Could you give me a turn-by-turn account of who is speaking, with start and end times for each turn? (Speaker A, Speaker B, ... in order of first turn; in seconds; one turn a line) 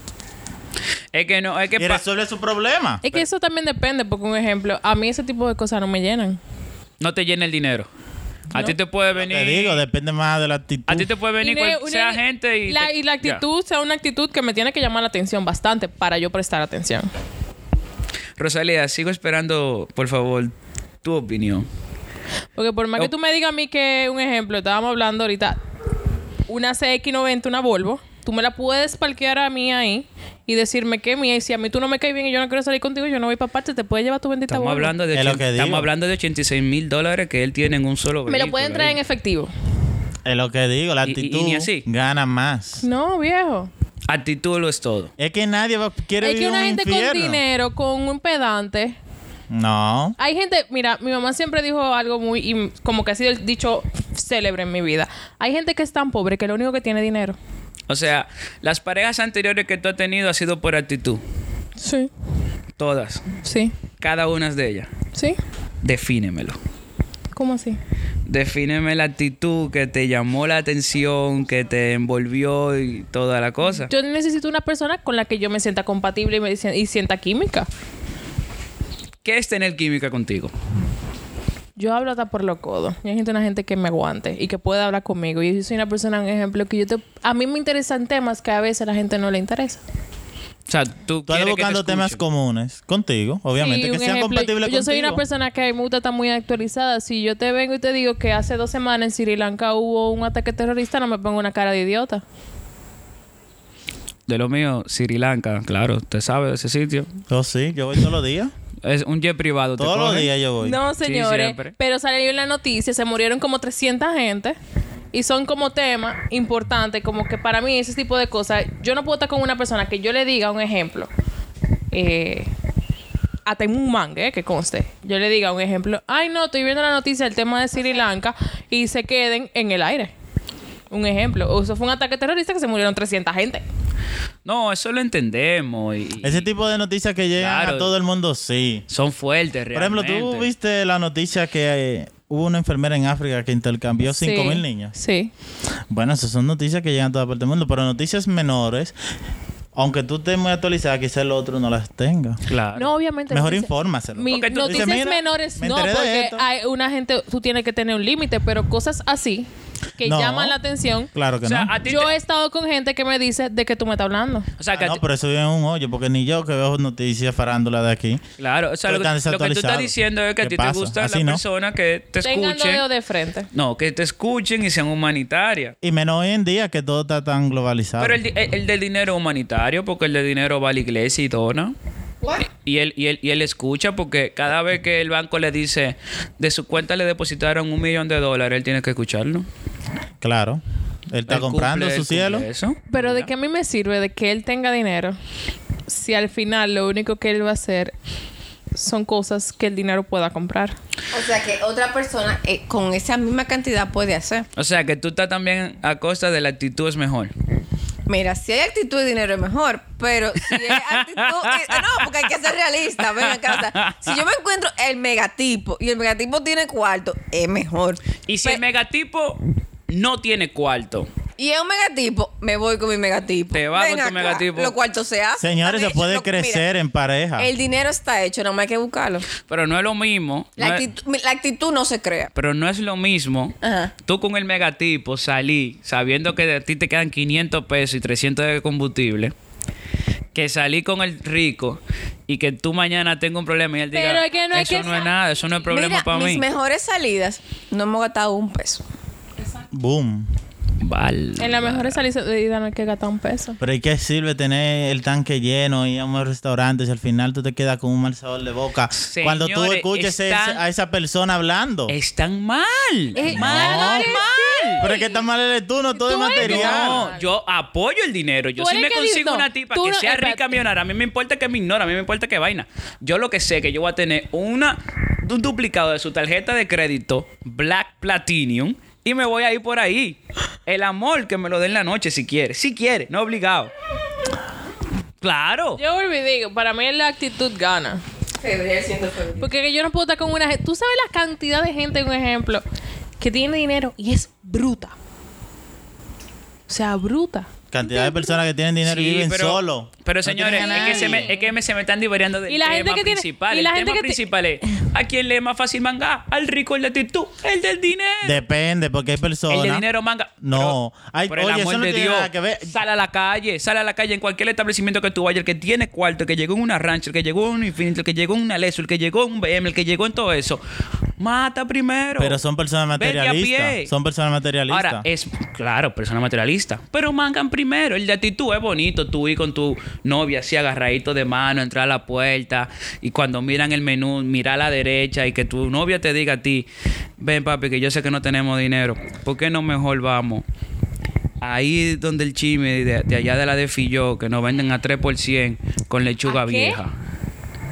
Speaker A: 1.1-2.0
Speaker B: 1.8-3.0
Speaker C: 3.0-6.4
Speaker A: 7.0-7.9
Speaker A: 8.5-9.8
Speaker B: 9.1-11.1
Speaker A: 10.9-13.4
Speaker C: 11.4-17.1
Speaker A: 18.4-21.7
Speaker C: 22.6-25.6
Speaker C: 26.5-34.9
Speaker A: 34.5-39.0
Speaker B: 35.1-35.9
Speaker C: 38.3-39.5
Speaker B: 40.2-42.8
Speaker A: 41.0-41.8
Speaker C: 42.8-43.7
Speaker A: 44.1-45.1
Speaker B: 45.2-47.4
Speaker C: 46.2-49.0
Speaker B: 49.5-50.1
Speaker C: 50.2-57.4
Speaker A: 57.9-61.2
Speaker C: 61.8-62.1
Speaker A: 62.8-63.2
Speaker C: 63.4-63.7
Speaker A: 64.0-64.9
Speaker A: 65.8-66.6
Speaker C: 67.3-67.8
Speaker A: 68.2-73.9
Speaker C: 73.9-77.7
Speaker A: 79.2-80.5
Speaker C: 81.8-89.8
Speaker A: 90.7-92.2
Speaker B: 91.3-95.2
Speaker C: 93.6-102.2
Speaker A: 104.3-107.1
Speaker B: 107.3-108.5
Speaker A: 108.8-110.3
Speaker B: 109.8-110.8
Speaker C: 110.6-114.5
Speaker A: 111.0-111.7
Speaker C: 115.1-121.1
Speaker C: 121.9-122.5
Speaker C: 123.5-130.1
Speaker C: 130.9-133.6
Speaker A: 134.4-136.5
Speaker B: 136.2-138.8
Speaker A: 137.4-137.9
Speaker A: 138.9-140.5
Speaker B: 139.7-144.9
Speaker C: 144.1-145.3
Speaker B: 145.9-148.9
Speaker B: 149.7-152.4
Speaker A: 152.5-152.9
Speaker C: 152.7-161.1
Speaker B: 153.3-156.4
Speaker A: 154.3-155.0
Speaker B: 160.0-160.6
Speaker B: 161.1-161.7
Speaker A: 161.4-162.1
Speaker C: 161.8-164.5
Speaker A: 164.6-165.0
Speaker B: 164.7-168.2
Speaker A: 168.4-172.8
Speaker B: 168.9-171.4
Speaker C: 172.2-173.5
Speaker A: 173.5-175.7
Speaker B: 175.8-178.2
Speaker A: 178.0-181.7
Speaker A: 182.4-189.5
Speaker B: 190.2-192.4
Speaker A: 191.3-193.3
Speaker C: 192.9-195.2
Speaker C: 195.9-197.9
Speaker C: 198.7-200.7
Speaker D: 201.1-204.5
Speaker A: 204.6-207.3
Speaker D: 208.1-218.6
Speaker A: 210.5-212.1
Speaker A: 213.0-214.2
Speaker A: 218.3-221.1
Speaker D: 221.4-226.6
Speaker A: 223.5-224.7
Speaker B: 225.4-227.5
Speaker D: 227.4-229.3
Speaker A: 229.5-230.8
Speaker D: 230.6-232.3
Speaker A: 232.3-239.3
Speaker D: 233.6-233.9
Speaker A: 240.3-246.4
Speaker C: 243.9-245.1
Speaker D: 245.7-248.8
Speaker B: 249.7-250.3
Speaker A: 250.8-252.0
Speaker C: 251.4-253.6
Speaker B: 253.6-261.9
Speaker A: 258.9-260.6
Speaker A: 261.9-264.8
Speaker C: 263.1-265.2
Speaker B: 263.3-264.2
Speaker B: 264.8-267.0
Speaker C: 265.9-267.2
Speaker A: 266.4-283.7
Speaker C: 268.6-270.6
Speaker A: 285.2-285.8
Speaker C: 285.8-288.0
Speaker D: 288.4-289.5
Speaker C: 289.4-292.6
Speaker C: 293.2-294.9
Speaker C: 296.7-298.4
Speaker B: 297.7-301.3
Speaker A: 298.8-308.4
Speaker C: 300.6-301.5
Speaker C: 302.5-304.2
Speaker B: 308.2-309.8
Speaker A: 309.5-310.8
Speaker B: 310.4-312.7
Speaker A: 311.3-320.6
Speaker A: 321.2-322.4
Speaker B: 322.2-325.0
Speaker A: 323.0-323.9
Speaker A: 324.7-336.7
Speaker A: 337.2-340.4
Speaker A: 341.4-346.9
Speaker C: 346.2-346.8